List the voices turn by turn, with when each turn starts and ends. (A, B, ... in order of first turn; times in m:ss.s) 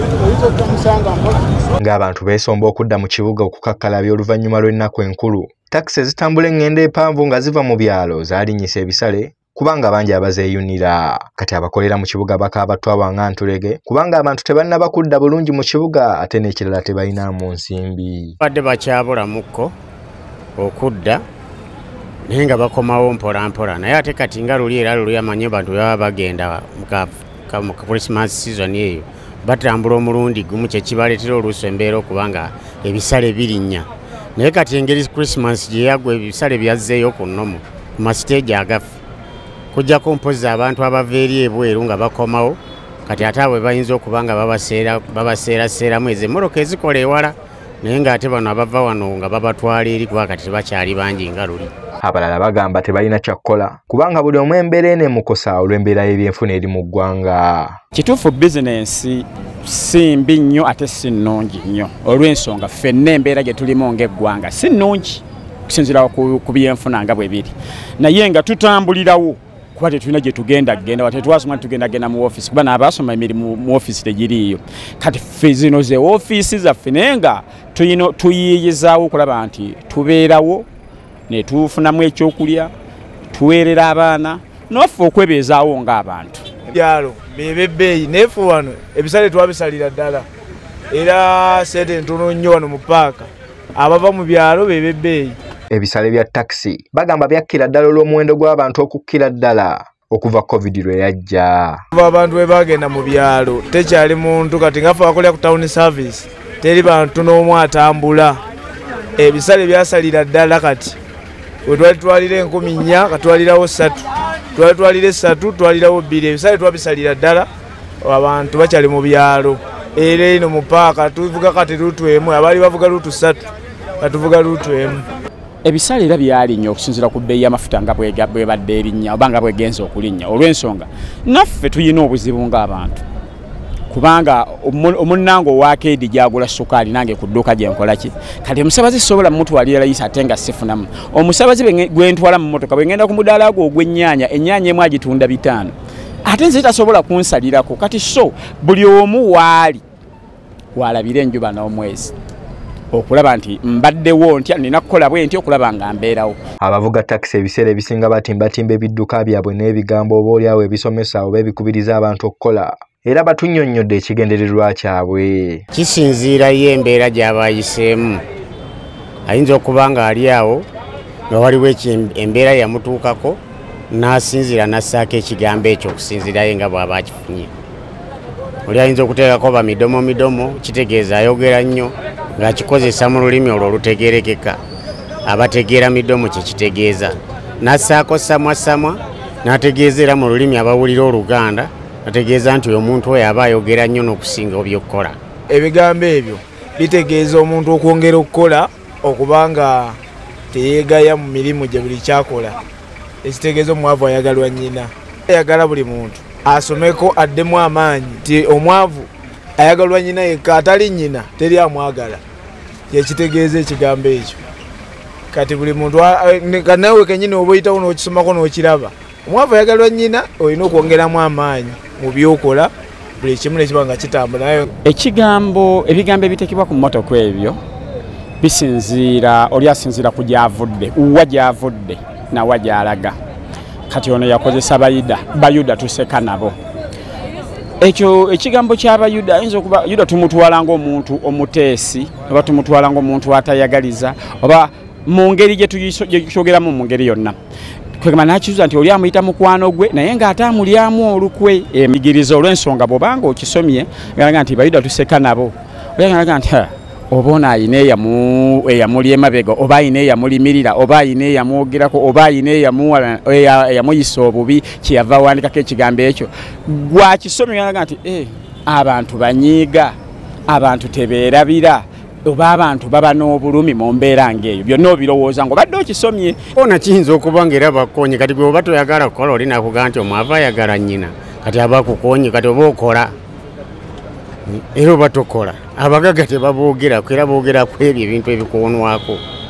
0:00.4-0:01.1 A
0:01.8-0:18.4 B
0:18.4-0:19.7 C
0:20.6-0:21.2 C
0:22.3-0:38.8 C
0:39.7-0:51.7 C
0:52.0-0:57.8 B
0:57.9-1:20.6 D
1:21.3-1:22.7 D
1:23.3-1:26.5 D
1:26.7-1:30.2 A
1:30.9-1:35.4 A
1:35.7-1:41.8 B
1:41.9-1:48.4 A
1:49.2-1:51.0 A
1:51.6-1:57.5 A
1:58.0-2:03.4 A
2:04.0-2:05.0 A
2:05.6-2:13.0 D
2:13.9-2:29.8 D
2:30.7-2:32.1 D
2:32.9-2:36.4 D
2:36.6-2:45.6 B
2:45.7-2:48.2 C
2:49.2-2:50.7 C
2:51.3-2:57.5 C
2:58.6-3:04.6 C
3:05.3-3:15.2 C
3:15.5-3:20.0 A
3:20.5-3:22.6 A
3:23.2-3:32.2 A
3:32.9-3:34.4 A
3:35.3-3:44.7 A
3:44.8-3:47.6 D
3:48.4-3:53.2 D
3:53.9-3:56.6 D
3:57.8-4:07.4 D
4:08.0-4:30.0 D
4:30.5-4:36.4 D
4:36.5-4:43.1 C
4:44.4-4:49.2 C